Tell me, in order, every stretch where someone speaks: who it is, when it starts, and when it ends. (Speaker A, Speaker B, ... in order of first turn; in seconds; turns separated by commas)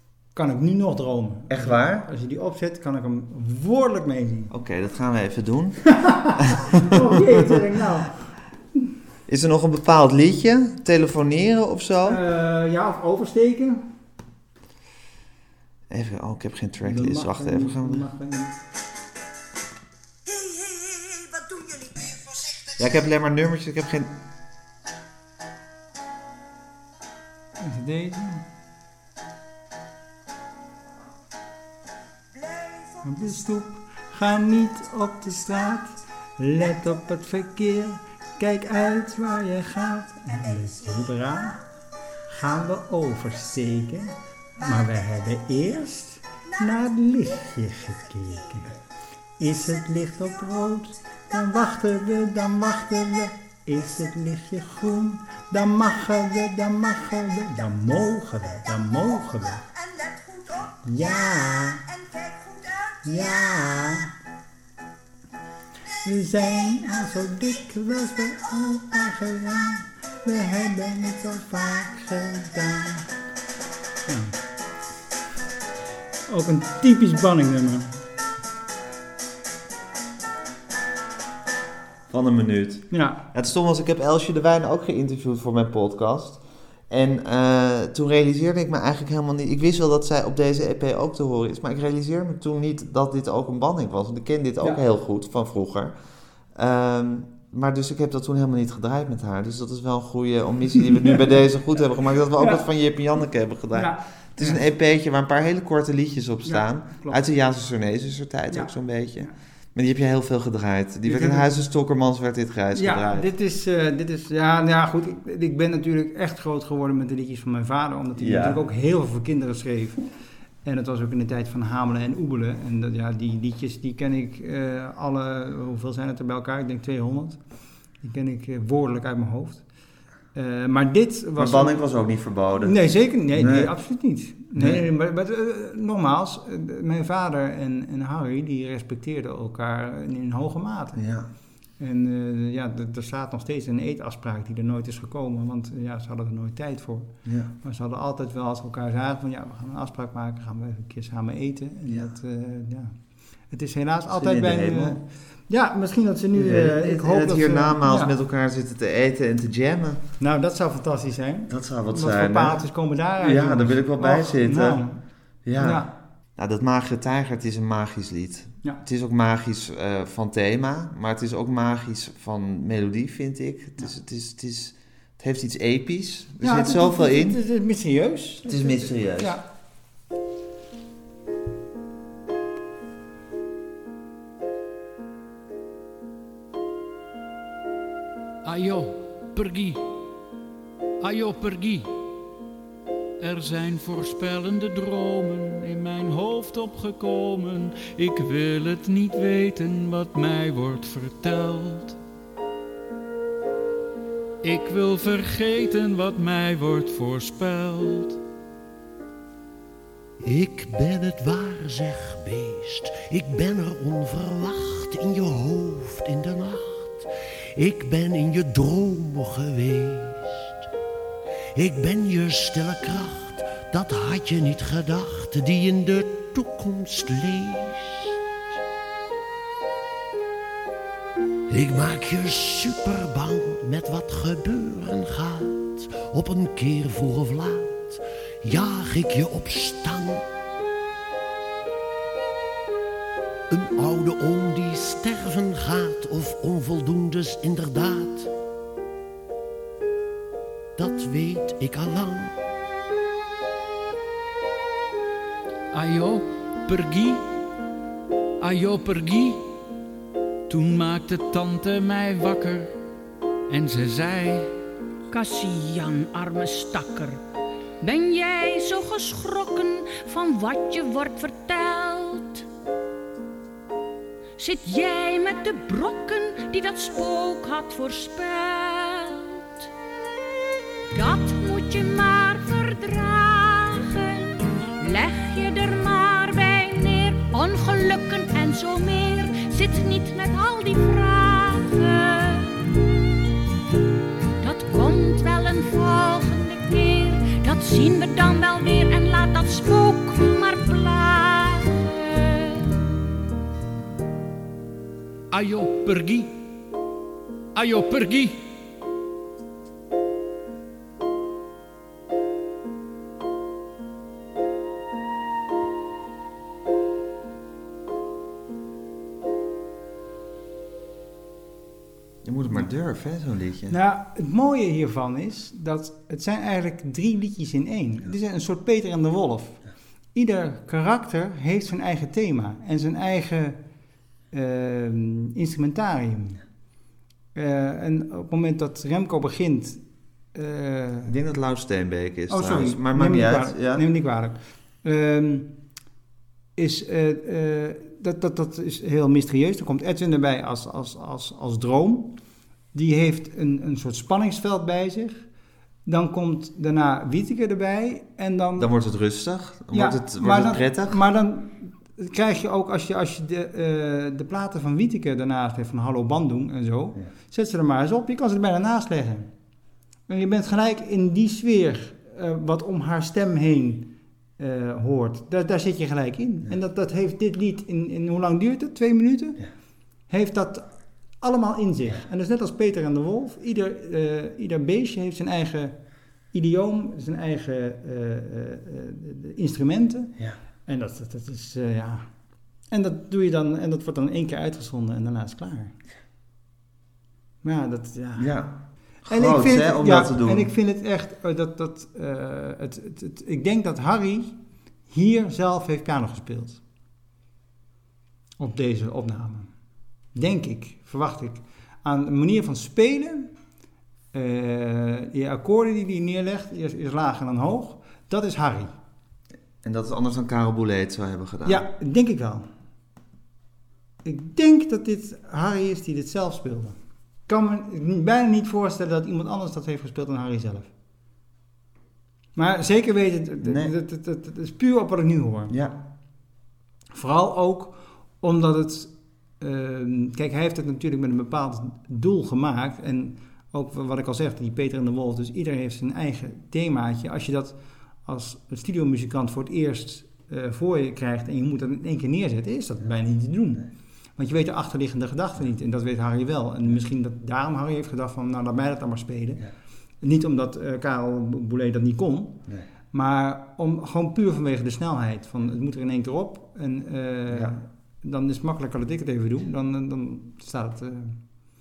Speaker A: 0.3-4.5, Speaker B: 1.5-2.1, Speaker B: 4.5-7.6, Speaker A: 6.0-8.3, Speaker B: 9.3-12.2, Speaker A: 12.0-13.8, Speaker B: 15.9-18.1, Speaker A: 16.8-18.6, Speaker B: 22.8-24.1, Speaker A: 27.6-28.4, Speaker A: 33.0-41.6, Speaker A: 42.3-48.8, Speaker A: 49.4-59.6, Speaker A: 60.8-61.9, Speaker A: 63.0-64.1, Speaker A: 66.0-73.1, Speaker A: 74.1-74.3, Speaker A: 76.3-77.9, Speaker B: 82.1-95.9, Speaker A: 82.9-83.2, Speaker B: 96.5-113.3, Speaker A: 100.9-101.2, Speaker A: 102.4-102.7, Speaker A: 103.7-104.6, Speaker A: 106.5-107.2, Speaker A: 108.5-109.3, Speaker A: 111.1-111.6, Speaker A: 112.7-120.0, Speaker B: 118.2-118.6, Speaker A: 120.7-127.4, Speaker A: 128.0-129.7, Speaker A: 130.3-131.8, Speaker B: 131.4-132.8, Speaker A: 132.6-141.0, Speaker B: 133.3-133.7, Speaker B: 134.6-134.8, Speaker B: 141.0-141.3, Speaker A: 141.8-152.9, Speaker B: 147.2-147.5, Speaker A: 153.5-158.1, Speaker B: 154.1-155.0, Speaker B: 156.3-160.0, Speaker A: 160.2-165.0, Speaker B: 161.5-162.6, Speaker B: 163.2-164.8, Speaker B: 165.4-177.4, Speaker A: 165.6-165.9, Speaker A: 176.4-179.4, Speaker B: 178.4-179.4, Speaker C: 188.4-189.8, Speaker C: 191.0-191.9, Speaker C: 193.2-202.0, Speaker C: 204.4-208.2, Speaker D: 210.2-217.1, Speaker D: 217.6-220.3, Speaker D: 221.6-228.1, Speaker D: 231.5-240.2, Speaker D: 243.5-248.3, Speaker D: 250.8-252.3, Speaker C: 255.7-257.2, Speaker C: 258.4-259.5, Speaker C: 260.5-262.8, Speaker C: 263.5-264.5, Speaker E: 265.1-267.2, Speaker E: 267.8-272.5, Speaker E: 274.4-279.7, Speaker E: 280.9-292.7, Speaker E: 294.4-302.8, Speaker C: 305.3-306.4, Speaker C: 307.6-308.5, Speaker B: 322.2-323.8, Speaker A: 323.7-329.6, Speaker A: 330.1-333.6, Speaker A: 334.3-336.4, Speaker A: 337.4-339.8, Speaker A: 340.3-341.1, Speaker B: 341.1-343.9, Speaker A: 342.3-345.5, Speaker A: 346.6-352.2, Speaker A: 352.7-355.3, Speaker A: 355.9-358.7, Speaker B: 358.6-361.0, Speaker A: 359.7-369.3, Speaker A: 370.1-379.4, Speaker A: 380.1-380.7, Speaker A: 381.2-385.8, Speaker A: 386.3-390.1, Speaker A: 390.7-392.1, Speaker A: 392.7-395.7, Speaker A: 397.4-398.3, Speaker B: 398.2-400.5, Speaker A: 399.1-404.4, Speaker A: 404.9-406.6, Speaker A: 408.4-409.5, Speaker A: 410.1-413.3, Speaker A: 414.1-418.7, Speaker B: 419.6-421.7, Speaker A: 421.5-422.5, Speaker A: 424.0-430.7, Speaker A: 432.4-435.6, Speaker B: 433.4-433.7, Speaker B: 435.5-435.8, Speaker A: 436.9-459.4, Speaker A: 460.0-471.2, Speaker B: 467.3-467.6